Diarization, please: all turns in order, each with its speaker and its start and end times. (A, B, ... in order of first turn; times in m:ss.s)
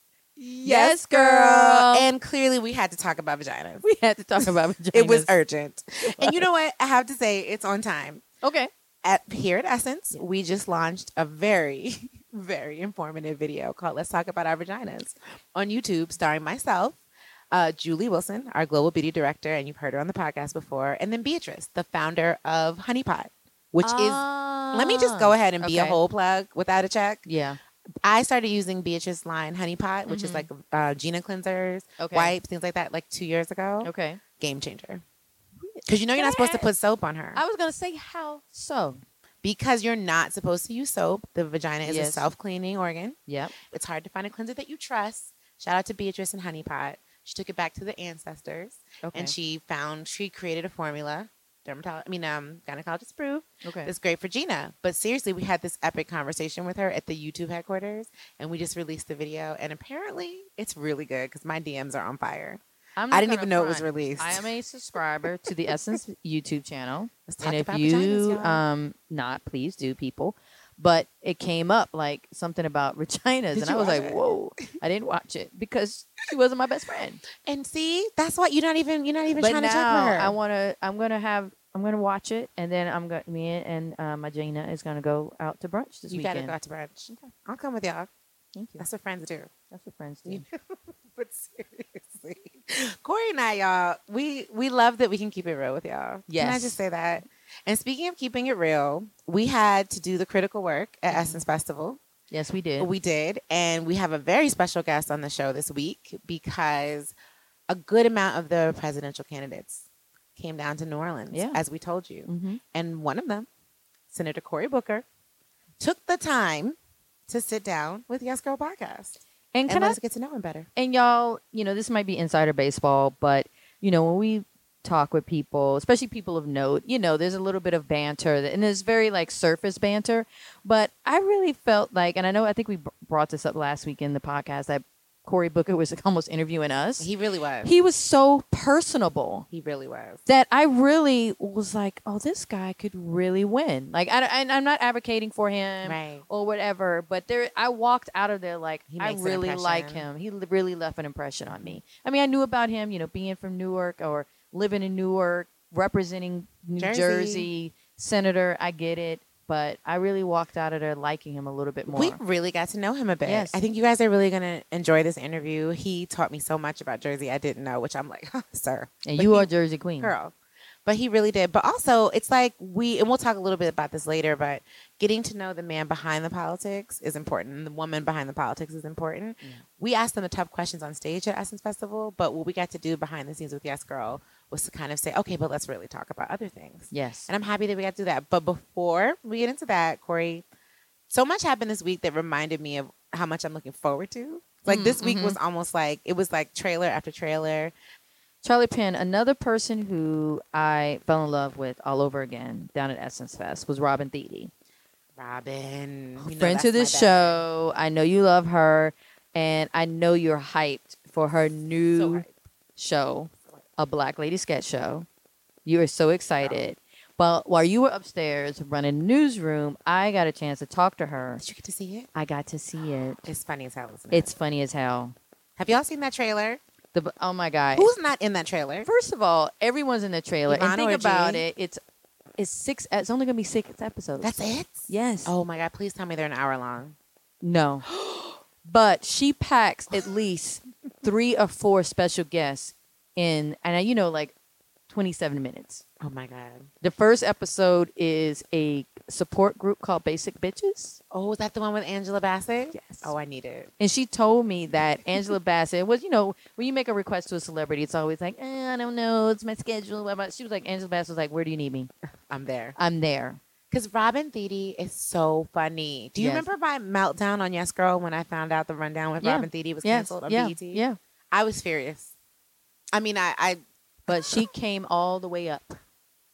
0:00.4-0:03.8 A
0:00.6-0:02.1 B
0:03.8-0:05.3 B
0:04.4-0:08.2 A
0:06.1-0:06.4 B
0:08.4-0:08.7 B
0:09.0-0:17.0 A
0:17.5-0:27.2 A
0:23.8-0:26.0 B
0:27.3-0:27.6 B
0:28.0-0:35.0 A
0:30.1-0:30.5 B
0:32.0-0:32.3 B
0:33.8-0:34.2 B
0:35.6-0:36.7 B
0:35.9-0:37.4 A
0:37.4-0:39.0 B
0:39.4-1:04.5 A
0:41.8-0:42.3 B
0:43.3-0:43.5 B
0:49.0-0:49.3 B
0:53.6-0:53.9 B
1:03.0-1:17.2 B
1:07.3-1:08.6 A
1:13.6-1:14.2 A
1:17.4-1:20.4 A
1:19.4-1:26.6 B
1:26.1-1:28.1 A
1:28.6-1:28.9 B
1:28.8-1:29.5 A
1:29.7-1:30.4 B
1:30.3-1:30.6 A
1:31.1-1:42.0 A
1:36.3-1:36.8 B
1:41.1-1:41.4 B
1:42.3-1:42.9 B
1:42.8-1:47.2 A
1:47.7-1:49.9 A
1:50.4-1:53.5 A
1:51.3-1:51.6 B
1:52.3-1:52.6 B
1:54.1-1:55.0 A
1:55.8-1:56.8 A
1:57.3-2:00.7 A
1:59.5-2:00.0 B
2:00.8-2:17.1 B
2:17.0-2:17.7 A
2:17.6-2:19.5 B
2:19.5-2:20.2 A
2:20.3-2:42.2 B
2:25.8-2:26.3 A
2:28.9-2:30.0 A
2:31.5-2:31.8 A
2:36.8-2:37.5 A
2:41.9-2:49.5 A
2:43.2-2:43.6 B
2:49.0-2:50.1 B
2:50.0-2:50.3 A
2:50.9-3:10.4 A
3:06.9-3:07.3 B
3:11.1-3:17.7 A
3:14.7-3:15.4 B
3:18.4-3:24.5 B
3:25.2-3:27.4 A
3:26.2-3:32.2 B
3:31.9-3:32.3 A
3:32.8-3:35.1 B
3:35.6-3:41.4 B
3:36.4-3:36.7 A
3:41.4-3:42.1 A
3:42.2-3:43.3 B
3:43.2-3:44.3 A
3:44.1-3:45.2 B
3:45.6-3:46.6 A
3:46.9-3:47.9 B
3:47.8-3:48.9 A
3:48.8-3:51.8 B
3:50.5-3:51.5 A
3:52.4-3:55.3 B
3:54.2-3:57.0 A
3:57.4-3:57.9 B
3:57.9-3:58.2 A
3:58.6-4:04.3 B
4:04.9-4:05.8 B
4:06.0-4:06.7 A
4:06.8-4:11.0 B
4:11.1-4:13.7 A
4:12.7-4:13.1 B
4:13.8-4:21.9 B
4:22.3-4:22.8 A
4:22.8-4:23.4 B
4:23.7-4:32.1 A
4:26.2-4:26.5 B
4:29.2-4:31.0 B
4:32.9-4:34.4 A
4:34.1-4:35.8 B